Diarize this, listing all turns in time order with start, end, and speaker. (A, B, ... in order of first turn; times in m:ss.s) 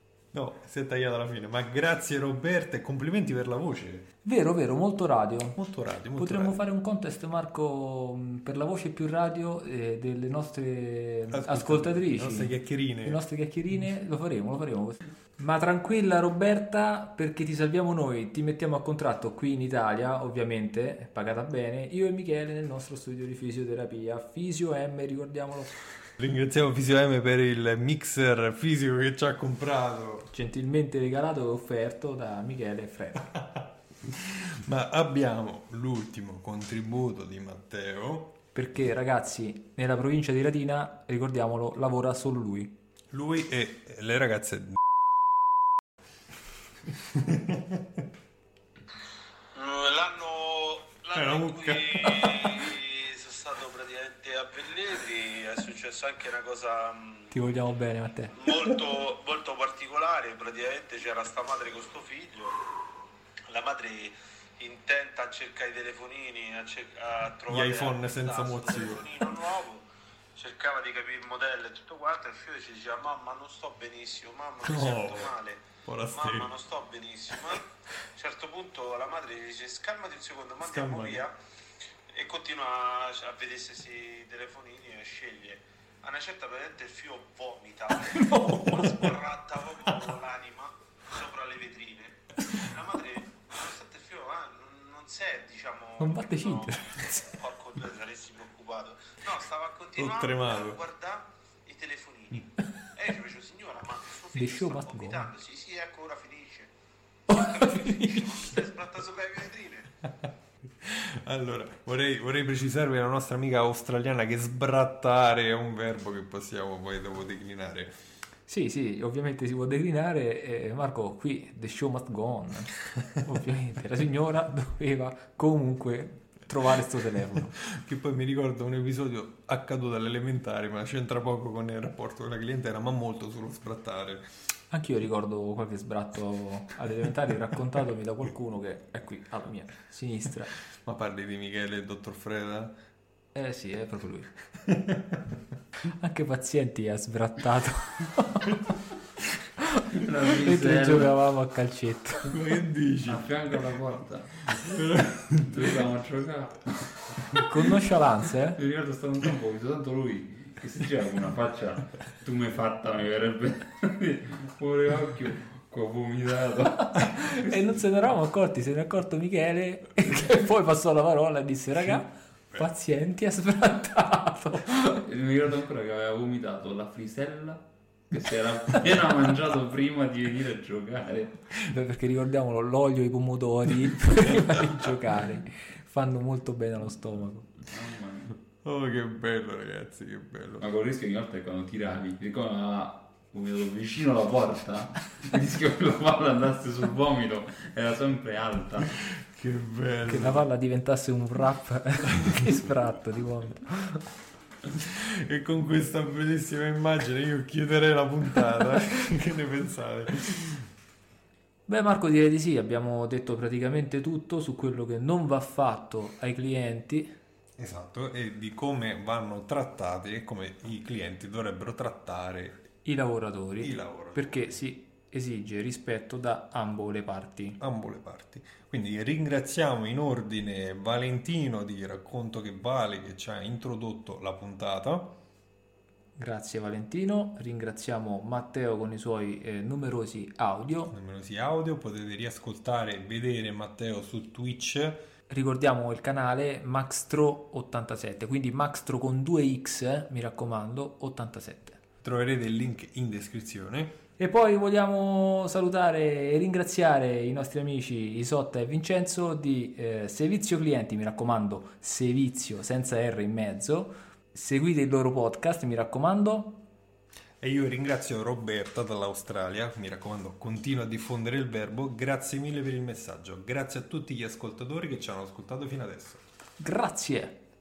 0:00.3-0:04.1 A
0:04.2-0:05.6 B
0:05.6-0:06.6 A
0:06.2-0:25.7 B
0:11.3-0:13.2 A
0:26.2-0:30.3 A
0:30.3-0:33.3 B
0:33.4-0:38.4 A
0:38.5-0:42.8 B
0:43.1-0:44.8 A
0:47.1-0:47.8 A
0:49.5-0:57.3 C
0:51.1-0:52.7 A
0:57.3-0:58.5 B
0:58.4-1:02.6 C
1:03.5-1:09.8 C
1:07.5-1:09.2 A
1:10.4-1:21.3 C
1:14.6-1:15.3 A
1:15.8-1:16.5 A
1:20.6-1:21.2 A
1:22.1-1:46.7 C
1:28.3-1:29.0 B
1:28.4-1:28.9 A
1:36.0-1:37.3 B
1:40.0-1:40.8 A
1:44.3-1:45.3 B
1:47.3-1:48.3 B
1:47.3-1:49.9 C
1:50.8-1:58.0 A
1:58.5-2:07.6 B
2:07.6-2:14.3 A
2:14.7-2:20.5 B
2:20.8-2:22.8 A
2:23.3-2:24.3 B
2:24.7-2:25.0 A
2:25.9-2:28.7 B
2:29.9-2:31.2 D
2:30.0-2:32.3 B
2:32.3-2:33.3 A
2:33.0-2:34.5 D
2:34.6-2:35.7 A
2:35.5-2:36.8 D
2:37.4-2:38.6 B
2:38.5-2:47.6 D
2:47.0-2:55.0 B
2:55.0-3:01.4 D
3:01.6-3:07.5 B
3:07.7-3:08.4 D
3:08.6-3:10.6 A
3:10.6-3:18.9 D
3:19.2-3:20.5 A
3:20.1-3:24.0 B
3:24.8-3:30.7 A
3:31.7-3:37.2 B
3:37.6-3:42.6 A
3:42.8-3:47.6 B
3:43.6-3:44.6 A
3:47.6-3:55.2 A
3:56.2-4:00.9 B
4:00.9-4:05.1 A
4:05.3-4:11.8 B
4:12.0-4:14.0 A
4:14.2-4:26.7 B
4:27.4-4:36.2 A
4:36.6-4:37.4 B